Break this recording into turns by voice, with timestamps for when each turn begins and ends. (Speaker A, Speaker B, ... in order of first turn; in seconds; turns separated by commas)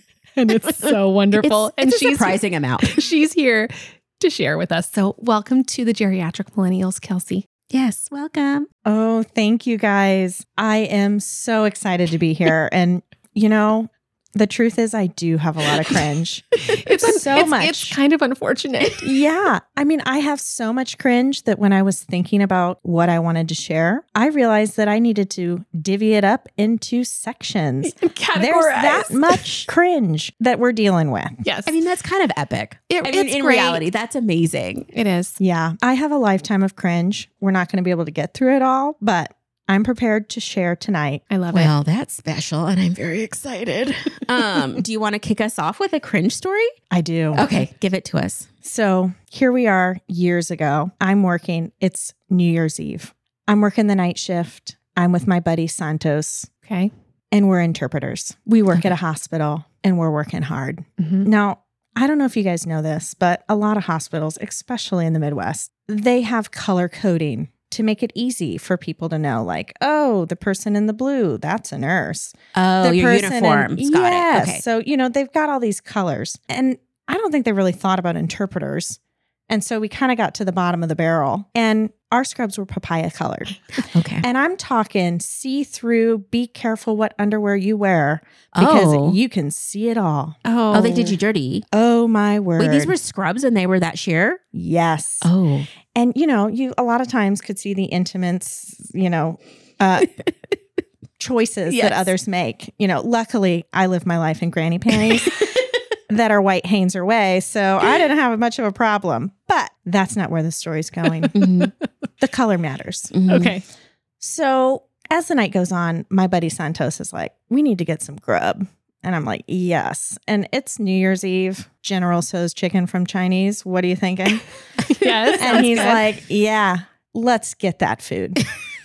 Speaker A: 0.3-7.5, Speaker B: 0.7-3.0, Speaker B: 7.7-8.7, Speaker C: 8.8-18.0, Speaker A: 16.6-19.0, Speaker C: 19.0-31.4, Speaker A: 27.8-29.6, Speaker A: 31.4-31.7, Speaker B: 31.6-34.9, Speaker A: 32.9-33.8, Speaker A: 34.9-35.4, Speaker C: 35.4-41.2, Speaker A: 41.3-41.7, Speaker B: 41.5-46.7, Speaker C: 46.9-47.6, Speaker B: 47.3-48.5, Speaker C: 48.6-56.5, Speaker A: 56.7-56.9, Speaker C: 57.3-83.6, Speaker A: 61.0-61.3, Speaker B: 72.5-74.6, Speaker B: 83.9-84.2, Speaker C: 84.2-90.4, Speaker B: 88.5-89.2, Speaker A: 90.4-91.2, Speaker B: 90.7-91.7, Speaker C: 91.7-92.9, Speaker B: 92.6-94.4, Speaker C: 94.5-95.3, Speaker B: 95.2-95.7, Speaker C: 95.9-100.1, Speaker C: 101.2-105.5, Speaker B: 101.7-102.1, Speaker C: 106.1-111.4, Speaker B: 111.3-111.7, Speaker C: 112.2-113.2, Speaker B: 113.1-113.5, Speaker A: 113.3-113.6, Speaker C: 114.2-124.5, Speaker A: 124.8-126.0, Speaker C: 125.4-128.4